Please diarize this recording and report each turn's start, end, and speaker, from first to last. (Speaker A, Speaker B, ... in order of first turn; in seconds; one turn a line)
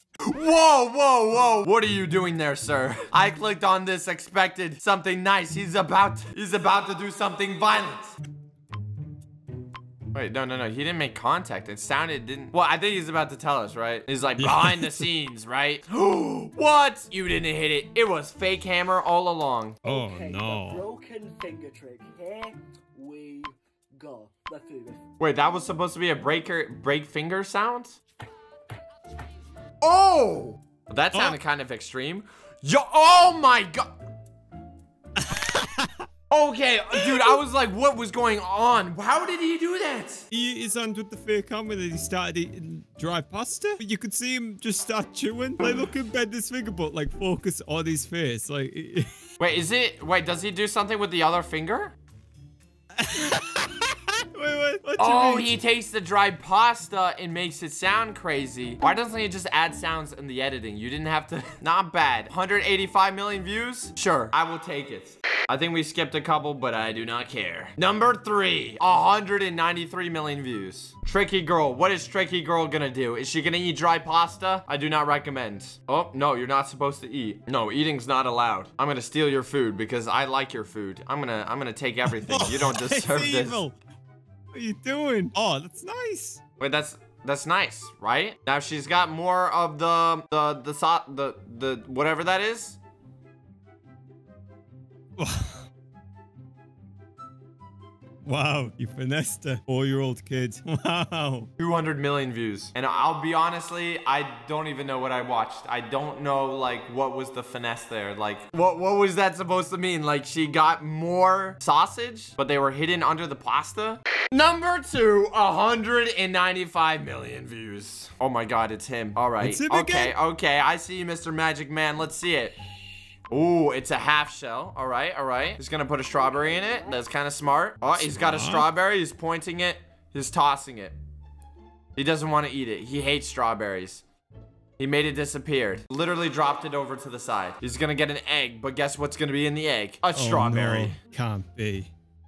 Speaker A: 0.3-8.1
Speaker A: 10.1-19.8
Speaker B: 14.4-15.1
Speaker B: 19.8-20.8
Speaker C: 19.8-25.0
Speaker A: 25.2-28.0
Speaker A: 29.8-33.9
Speaker B: 31.1-31.4
Speaker B: 35.2-36.0
Speaker A: 36.3-40.3
Speaker B: 37.0-37.3
Speaker B: 40.3-49.1
Speaker A: 49.4-51.9
Speaker B: 53.0-55.5
Speaker A: 55.0-83.6
Speaker B: 82.0-83.8
Speaker B: 84.5-86.4
Speaker A: 86.6-92.8
Speaker B: 95.2-95.7
Speaker B: 98.2-101.5
Speaker A: 101.6-122.5
Speaker B: 119.4-120.1
Speaker A: 123.3-130.9
Speaker B: 128.0-128.7
Speaker A: 131.9-134.0
Speaker A: 134.8-141.0
Speaker B: 140.1-141.9